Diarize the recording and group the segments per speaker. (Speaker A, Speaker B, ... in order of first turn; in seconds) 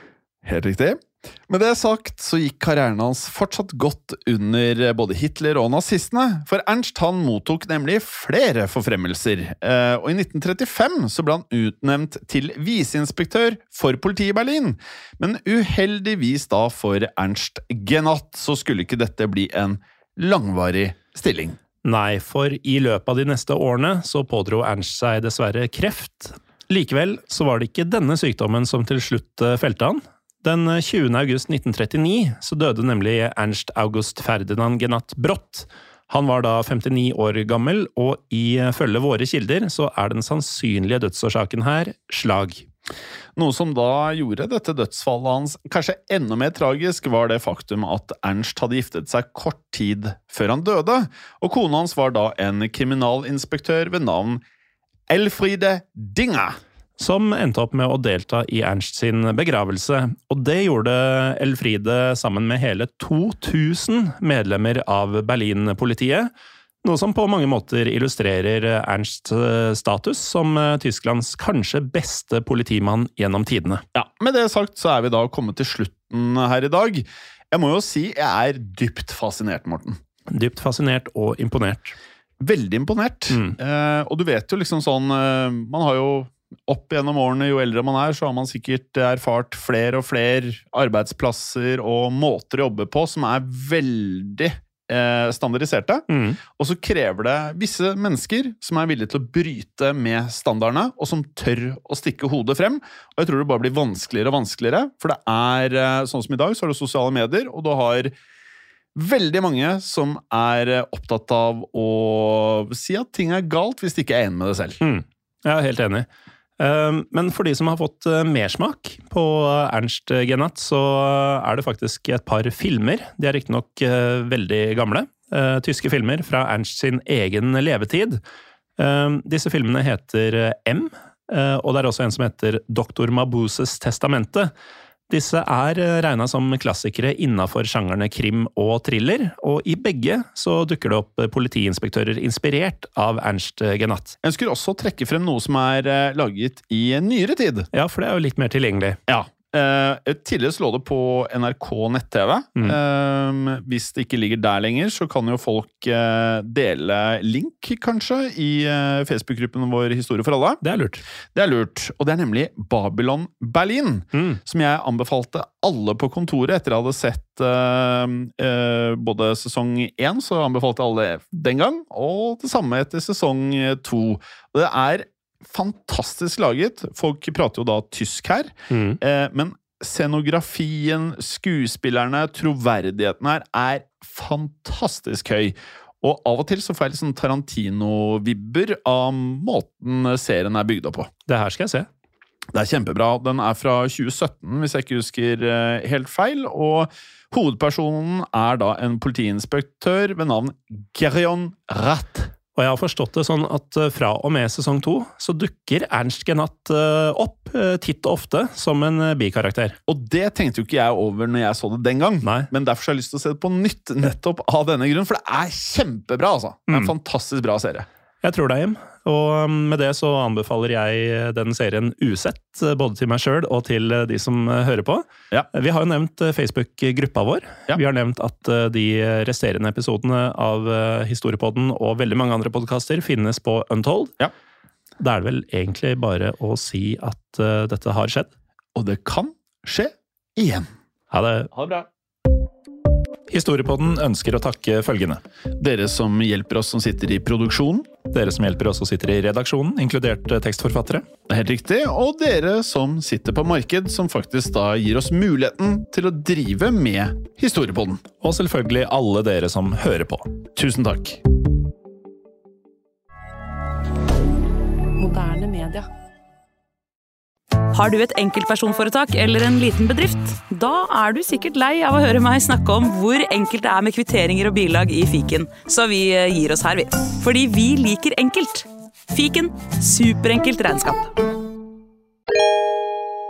Speaker A: 0.4-21.6, 43.4-54.4, 55.1-56.6, 73.9-80.0, 82.4-108.1, 109.0-114.8, 144.2-147.7, 149.1-160.6, 161.3-191.1, 192.5-202.3, 209.9-217.8, 238.7-240.7, 241.5-241.8, 245.6-247.9, 251.3-258.0, 260.5-261.2
Speaker B: 21.8-42.6, 57.0-66.3, 66.8-73.8, 80.3-82.0, 83.3-83.5, 96.1-96.4, 114.8-116.1, 116.6-128.2, 128.8-134.5, 135.1-144.2, 147.7-149.0, 160.6-161.0, 164.1-164.4, 178.7-179.0, 191.3-191.9, 202.5-209.8, 212.2-212.5, 218.2-234.1, 235.0-238.3, 241.1-241.5, 243.3-245.2, 248.1-251.1, 258.2-260.3
Speaker C: 264.9-265.9, 267.7-281.1